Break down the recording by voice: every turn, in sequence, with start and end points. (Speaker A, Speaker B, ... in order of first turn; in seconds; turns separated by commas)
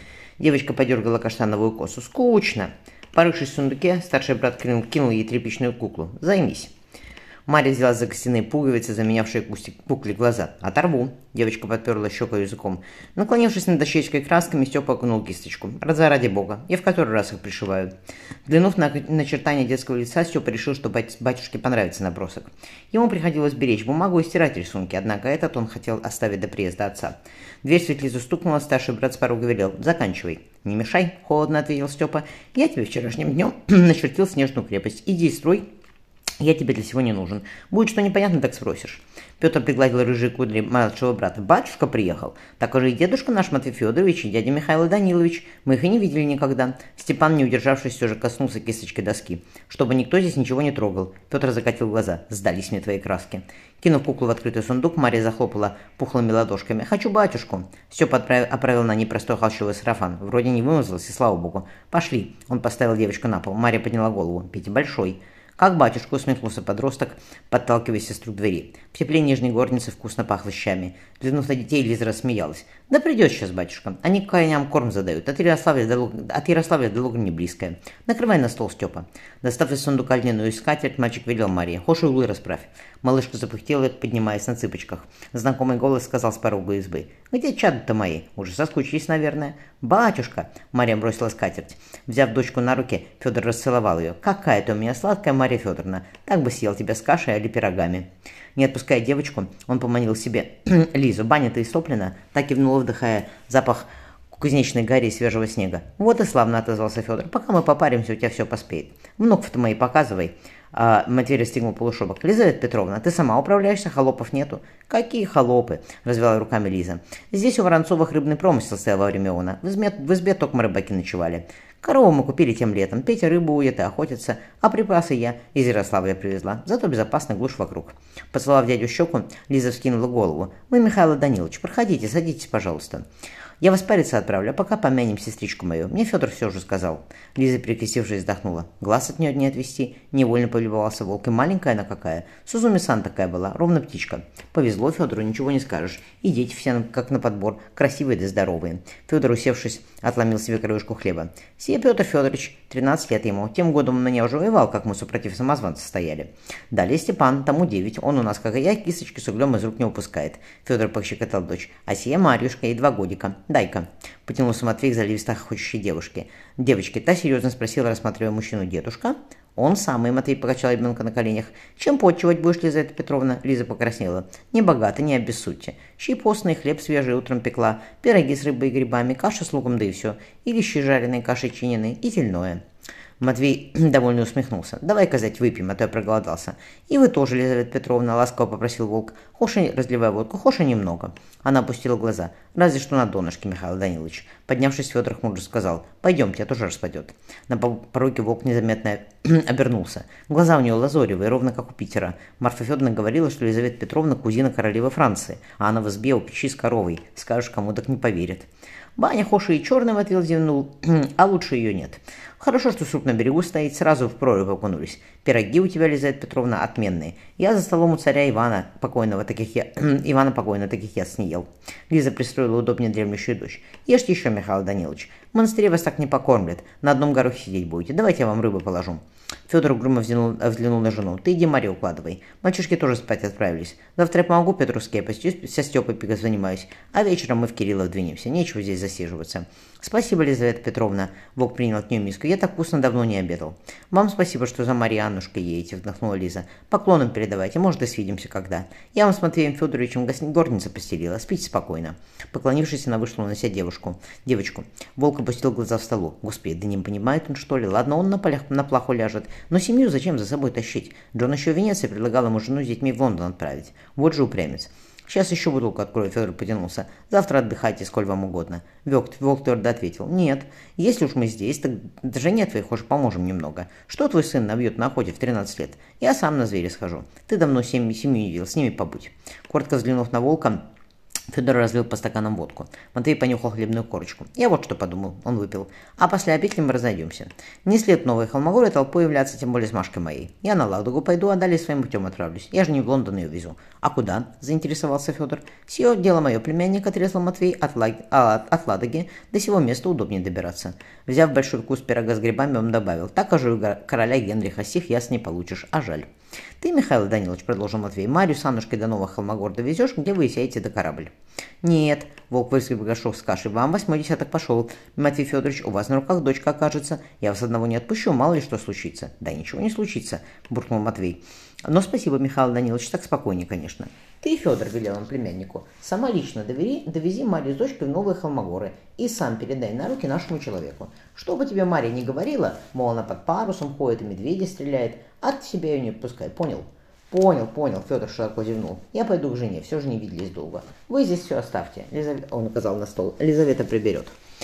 Speaker A: 0.4-6.7, Speaker A: 7.5-17.9, Speaker A: 18.5-35.6, Speaker A: 36.4-133.0, Speaker A: 133.6-182.6, Speaker A: 183.2-280.6, Speaker A: 281.3-306.1, Speaker A: 306.6-311.1, Speaker A: 311.6-344.1